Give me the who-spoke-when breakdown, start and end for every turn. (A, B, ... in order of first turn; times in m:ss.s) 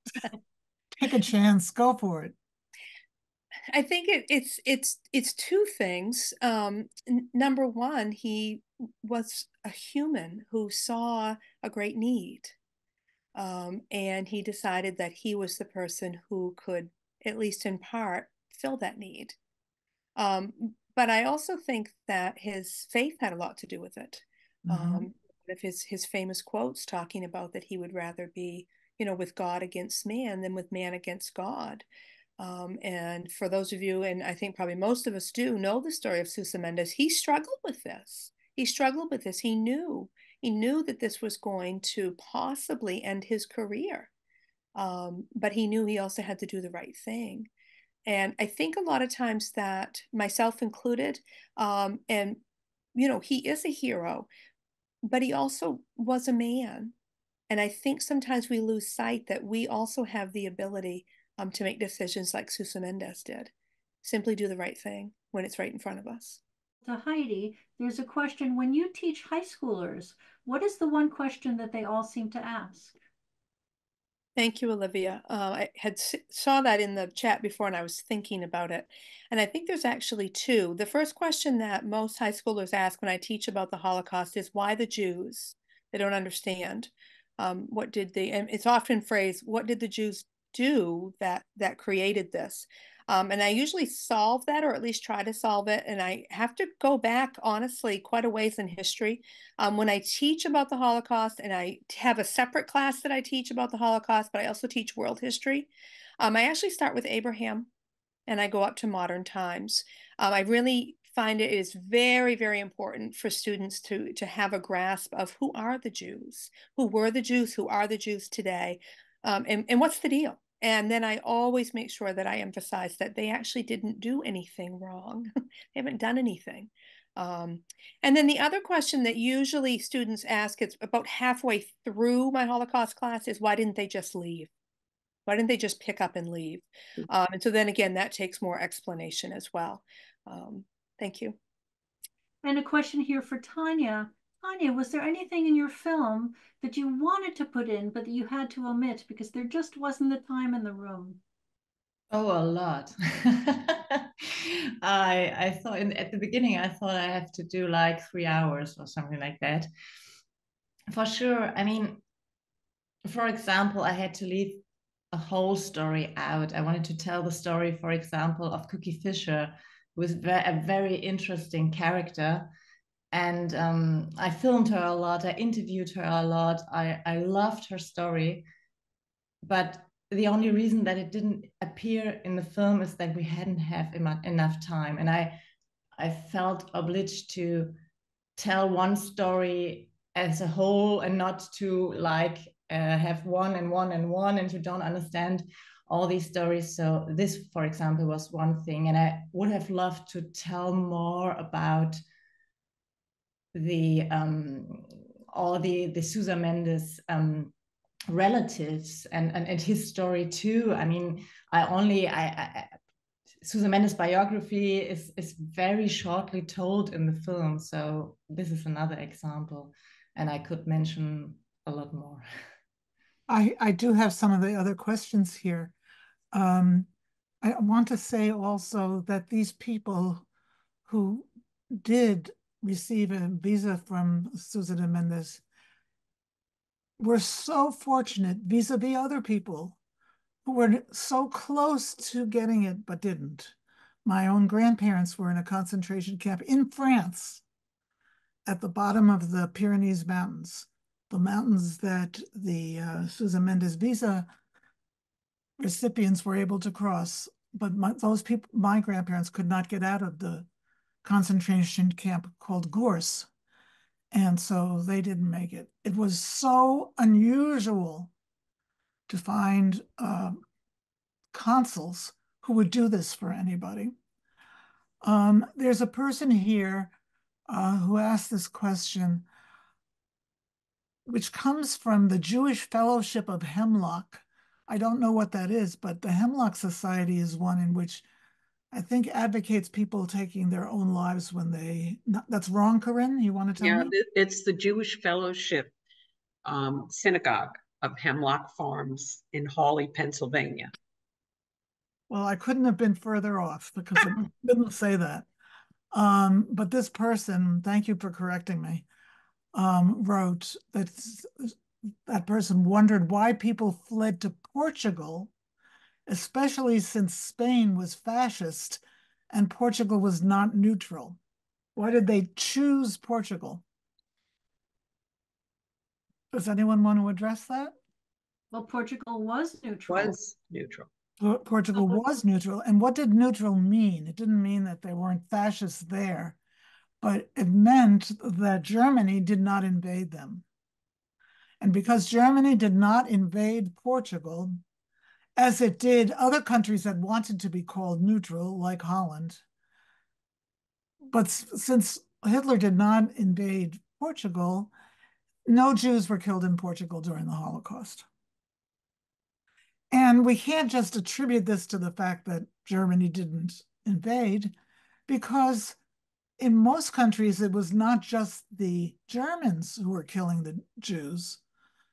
0:00.9-0:02.3 A
0:03.7-0:12.5 B
0:13.3-0:19.4 B
0:20.2-0:31.8 B
0:24.7-0:25.1 A
0:32.4-0:44.1 B
0:44.7-0:47.5 B
0:48.0-0:52.4 B
0:52.9-0:54.3 B
0:55.0-0:56.9 B
0:57.5-1:03.5 B
1:04.0-1:06.4 B
1:06.8-1:13.0 C
1:14.4-1:47.7 B
1:48.3-2:14.5 B
2:15.2-2:21.4 B
2:22.4-2:31.2 C
2:32.1-2:39.7 D
2:40.9-2:42.0 D
2:43.0-2:52.5 D
2:53.1-2:58.4 D
2:59.4-3:05.4 D
3:06.0-3:07.7 D
3:08.4-3:22.0 D
3:23.5-3:27.5 D
3:28.1-3:32.7 D
3:33.4-3:42.2 D
3:43.3-3:45.7 A
3:46.3-3:46.9 A
3:47.4-3:50.2 A
3:50.9-3:55.4 A
3:57.0-3:59.8 A
4:00.4-4:07.4 A
4:08.4-4:14.3 A
4:15.6-4:20.5 A
4:21.0-4:23.3 A
4:24.1-4:28.1 A
4:29.1-4:30.4 A
4:31.3-4:33.9 A
4:35.0-4:36.9 A
4:37.5-4:39.2 A
4:41.0-4:48.0 A
4:48.7-4:53.9 A
4:53.6-4:55.7 E
4:56.4-5:00.7 E
5:02.1-5:05.3 A
5:05.9-5:08.8 A
5:09.5-5:15.3 A
5:16.1-5:21.2 A
5:21.7-5:23.6 A
5:26.3-5:27.7 A
5:28.5-5:30.2 C
5:29.9-5:30.9 E
5:31.2-5:36.4 A
5:37.0-5:40.4 A
5:41.6-5:44.6 A
5:45.4-5:49.4 A
5:51.1-5:54.7 A
5:55.5-5:58.0 A
5:59.9-6:04.5 A
6:05.1-6:05.8 A
6:06.4-6:11.4 A